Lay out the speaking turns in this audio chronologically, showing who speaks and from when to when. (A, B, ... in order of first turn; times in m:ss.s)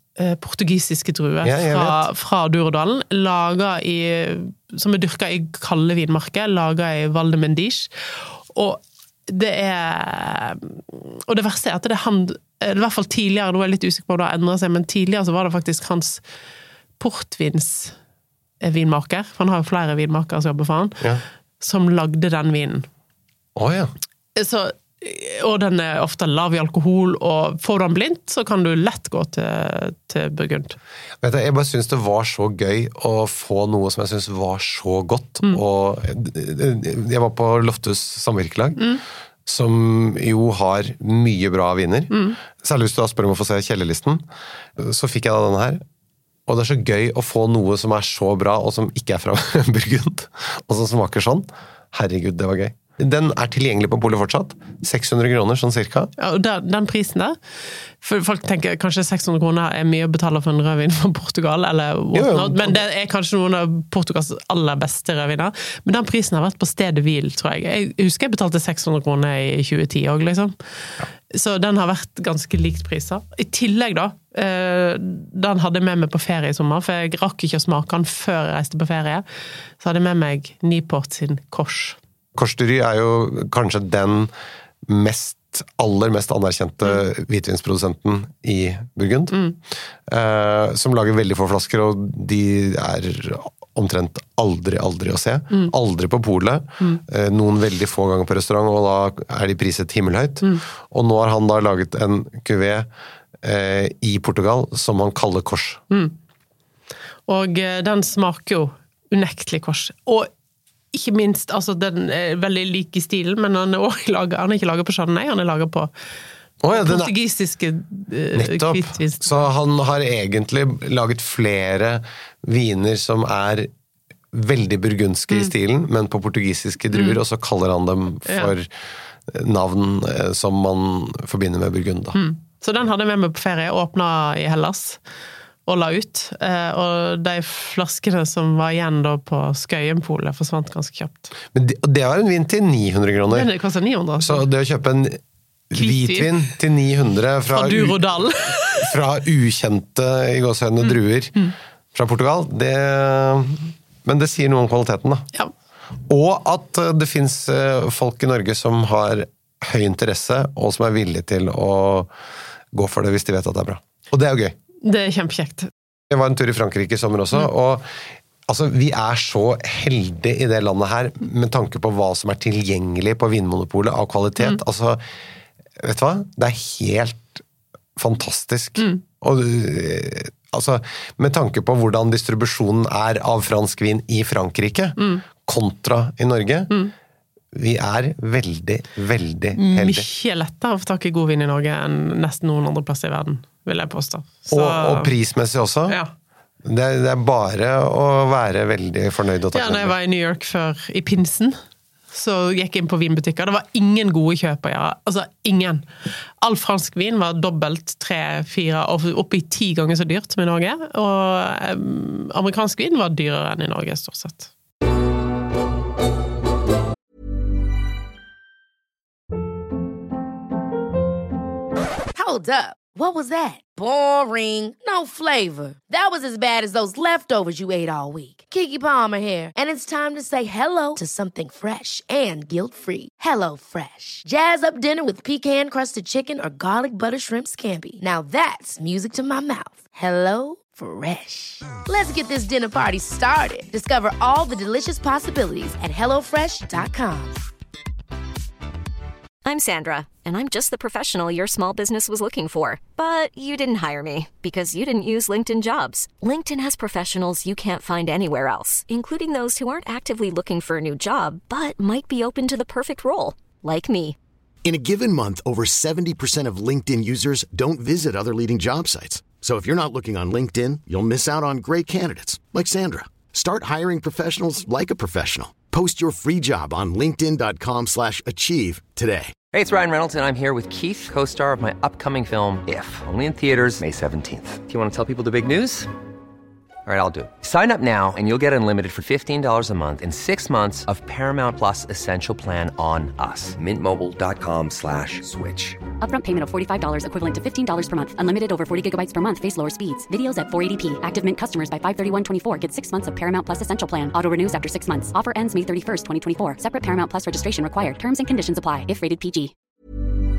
0:00.2-0:16.2 A
0:01.4-0:02.0 B
0:17.0-0:18.0 A
0:18.6-0:21.0 A
0:21.6-0:22.9 A
0:23.6-0:23.9 B
0:24.4-0:30.8 A
0:31.2-0:38.8 B
0:39.4-0:44.2 B
0:42.1-0:42.4 A
0:44.8-0:45.8 B
0:46.5-0:56.1 B
0:56.2-0:57.4 A
0:58.0-1:10.5 A
1:02.1-1:02.8 B
1:11.3-1:19.2 A
1:19.8-1:22.0 A
1:22.3-1:24.3 B
1:24.8-1:29.4 B
1:30.1-1:42.9 B
1:43.4-1:45.8 B
1:47.3-1:50.3 A
1:50.9-1:55.9 A
1:56.6-1:57.1 B
1:56.7-1:59.4 A
1:58.3-2:03.7 B
2:04.3-2:08.7 B
2:08.2-2:08.5 A
2:09.3-2:12.2 B
2:12.1-2:15.0 A
2:15.6-2:21.3 A
2:21.5-2:23.5 B
2:23.3-2:24.4 A
2:24.2-2:31.4 B
2:25.7-2:26.5 A
2:27.5-2:29.0 A
2:30.8-2:31.5 A
2:31.9-2:35.3 B
2:36.1-2:42.1 B
2:42.7-2:44.6 B
2:44.8-2:45.7 A
2:46.1-2:55.0 B
2:55.8-2:57.4 B
2:58.0-3:06.7 B
3:05.0-3:05.2 A
3:07.5-3:10.1 B
3:09.6-3:15.1 A
3:14.5-3:16.0 B
3:16.6-3:19.9 B
3:19.5-3:21.6 A
3:22.1-3:25.8 A
3:26.4-3:34.5 A
3:42.1-4:07.4 C
4:09.4-4:24.2 D
4:24.6-4:39.3 E
4:39.5-4:45.9 F
4:46.8-4:55.8 F
4:56.0-5:09.5 G